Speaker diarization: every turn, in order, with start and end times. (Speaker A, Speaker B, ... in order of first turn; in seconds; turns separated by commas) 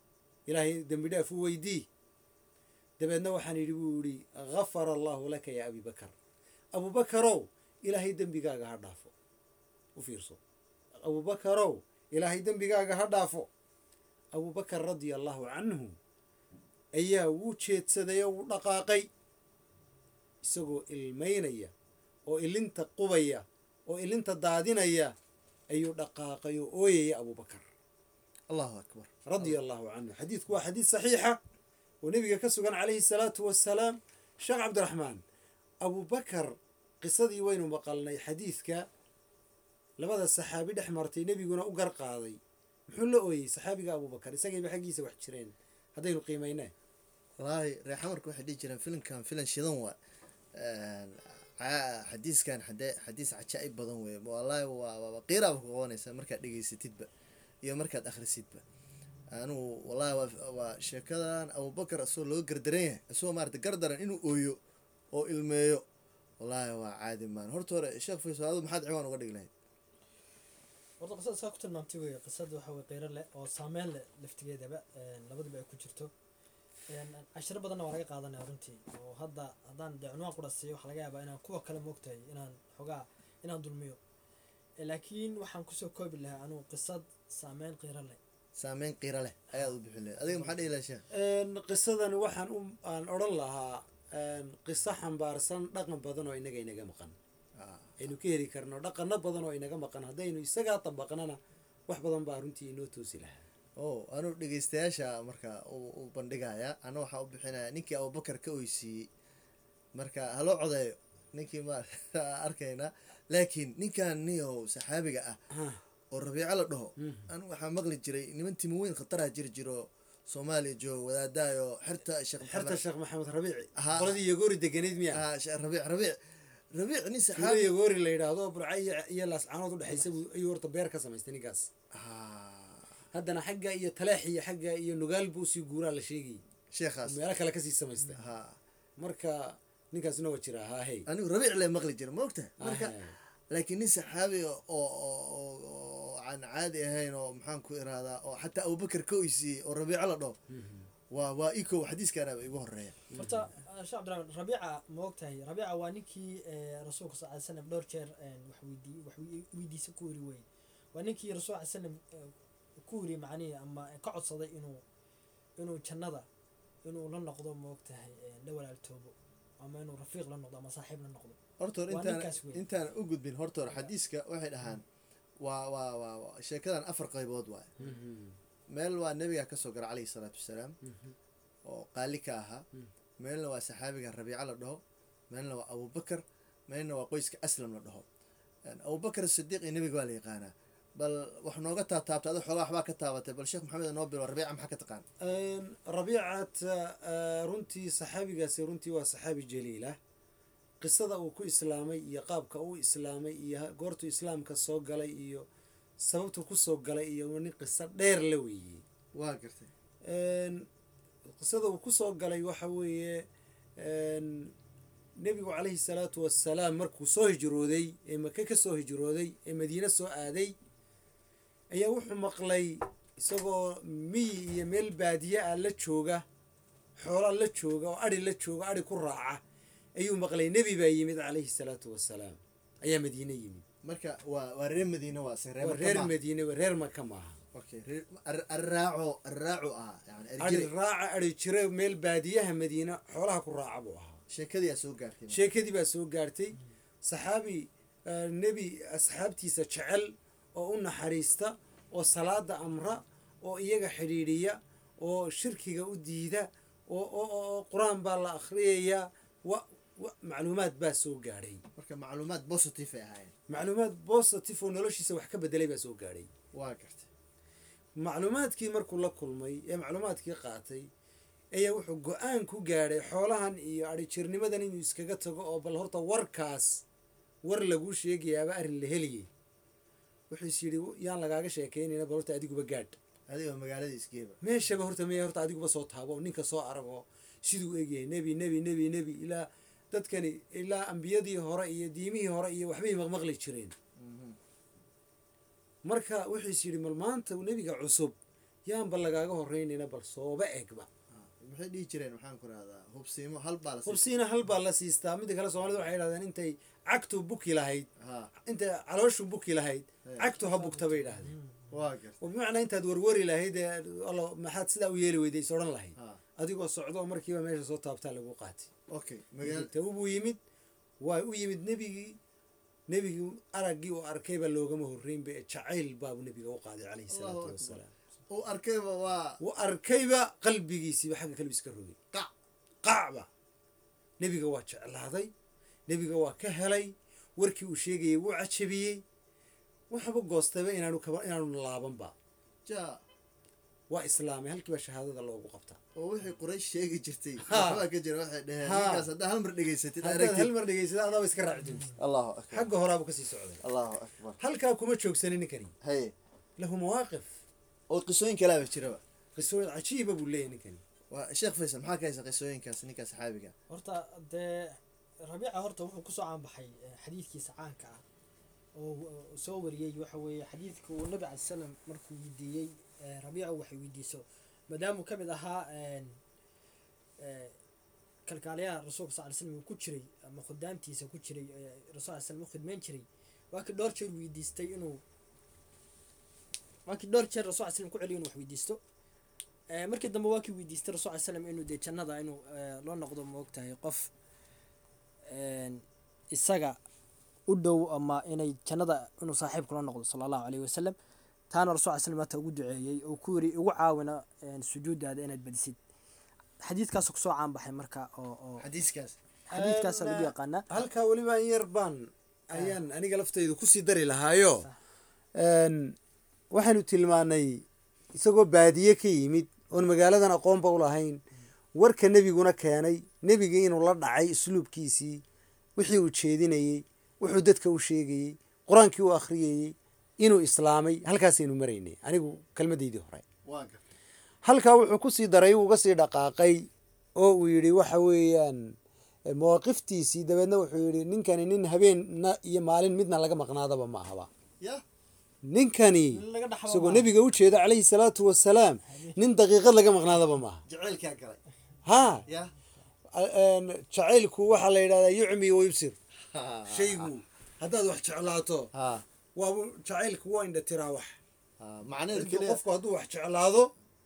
Speaker A: 0.5-1.9, Speaker A: 3.0-6.1, Speaker A: 6.7-9.1, Speaker A: 10.0-10.4, Speaker A: 11.0-13.5, Speaker A: 14.3-15.9, Speaker A: 17.0-19.1, Speaker A: 20.4-21.7, Speaker A: 22.3-25.1, Speaker A: 25.7-27.7, Speaker B: 28.5-29.6, Speaker A: 29.3-31.4, Speaker A: 32.0-35.2, Speaker A: 35.8-38.9, Speaker A: 40.0-46.7, Speaker B: 47.4-50.0, Speaker B: 50.5-57.1, Speaker B: 57.6-58.6, Speaker B: 59.3-64.6, Speaker B: 65.1-65.8, Speaker B: 66.4-69.5, Speaker C: 71.0-76.1, Speaker C: 76.9-84.0, Speaker C: 84.8-88.2, Speaker B: 88.6-91.0, Speaker A: 91.1-97.2, Speaker B: 97.6-98.0, Speaker A: 98.0-103.4, Speaker B: 103.8-109.1, Speaker B: 110.0-115.4, Speaker A: 115.5-115.8, Speaker B: 116.1-122.8, Speaker A: 117.0-117.3, Speaker A: 122.4-125.2, Speaker B: 123.8-124.2, Speaker B: 125.1-126.2, Speaker B: 126.7-127.7, Speaker A: 127.4-131.7, Speaker B: 131.9-132.9, Speaker A: 133.1-136.4, Speaker B: 136.7-137.2, Speaker A: 137.1-138.2, Speaker B: 138.2-138.6, Speaker A: 139.0-141.1, Speaker B: 141.1-143.0, Speaker A: 142.6-143.2, Speaker B: 143.5-150.4, Speaker A: 150.5-150.9, Speaker B: 151.1-153.0, Speaker A: 153.1-153.5, Speaker C: 153.2-164.8, Speaker C: 165.6-166.3, Speaker C: 166.8-172.6, Speaker B: 171.6-174.8, Speaker B: 175.4-177.8, Speaker A: 177.8-178.4, Speaker B: 178.7-180.8, Speaker A: 180.8-181.2, Speaker B: 181.7-182.7, Speaker B: 183.2-188.1, Speaker B: 188.7-195.1, Speaker A: 195.2-200.0, Speaker A: 200.8-205.5, Speaker A: 206.0-208.8, Speaker B: 209.2-209.7, Speaker A: 210.1-210.7, Speaker A: 211.3-213.2, Speaker A: 213.8-214.5, Speaker A: 215.2-220.5, Speaker A: 221.7-226.2, Speaker A: 227.0-229.4, Speaker A: 230.0-233.7, Speaker B: 233.8-236.1, Speaker A: 235.6-237.4, Speaker B: 237.5-240.7, Speaker A: 240.4-244.2, Speaker B: 244.3-245.4, Speaker A: 245.3-261.6, Speaker B: 261.8-263.3, Speaker A: 263.5-266.3, Speaker B: 266.5-267.1, Speaker A: 268.0-270.9, Speaker A: 271.5-276.8, Speaker A: 277.4-279.3, Speaker A: 280.3-283.0, Speaker B: 283.3-284.4, Speaker A: 284.4-293.7, Speaker B: 294.0-294.4, Speaker A: 295.8-298.1, Speaker A: 298.7-300.9, Speaker B: 301.1-304.1, Speaker A: 303.9-307.9, Speaker B: 308.0-308.3, Speaker A: 308.4-311.3, Speaker C: 310.4-311.7, Speaker B: 311.7-312.2, Speaker A: 312.2-318.7, Speaker B: 318.9-319.7, Speaker A: 319.4-320.4, Speaker A: 321.0-322.2, Speaker A: 322.9-327.9, Speaker B: 327.1-327.8, Speaker B: 328.3-329.4, Speaker A: 329.4-332.0, Speaker A: 332.8-333.3, Speaker A: 334.2-335.3, Speaker A: 335.9-339.0, Speaker A: 339.9-342.1, Speaker B: 342.7-343.0, Speaker A: 343.9-345.8, Speaker B: 346.0-350.5, Speaker A: 347.4-347.8, Speaker A: 348.6-349.1, Speaker A: 350.0-352.0, Speaker B: 352.0-352.7, Speaker A: 352.5-353.6, Speaker B: 353.6-354.4, Speaker A: 354.4-355.8, Speaker B: 355.8-356.1, Speaker A: 356.6-357.3, Speaker B: 357.9-359.0, Speaker A: 359.4-360.8, Speaker B: 361.1-363.5, Speaker C: 363.7-368.0, Speaker C: 368.8-376.2, Speaker C: 377.2-377.6, Speaker C: 378.3-385.0, Speaker C: 386.9-388.8, Speaker C: 389.7-394.1, Speaker C: 395.3-396.8, Speaker C: 397.5-401.0, Speaker C: 401.5-405.8, Speaker C: 406.6-408.6, Speaker B: 408.6-409.2, Speaker A: 409.5-414.7, Speaker C: 409.5-410.7, Speaker C: 412.5-412.8, Speaker A: 415.4-416.0, Speaker A: 416.5-417.6, Speaker A: 418.1-421.2, Speaker A: 421.8-425.2, Speaker A: 425.8-433.2, Speaker B: 433.4-433.8, Speaker A: 434.4-438.7, Speaker A: 439.3-444.3, Speaker A: 445.5-450.6, Speaker C: 446.1-447.1, Speaker C: 448.9-449.2, Speaker B: 450.7-451.4, Speaker A: 451.9-452.2, Speaker B: 452.3-452.5, Speaker A: 453.1-456.0, Speaker B: 456.3-457.1, Speaker A: 456.7-458.7, Speaker B: 458.7-459.1, Speaker A: 459.4-461.2, Speaker B: 461.6-462.6, Speaker A: 462.1-463.7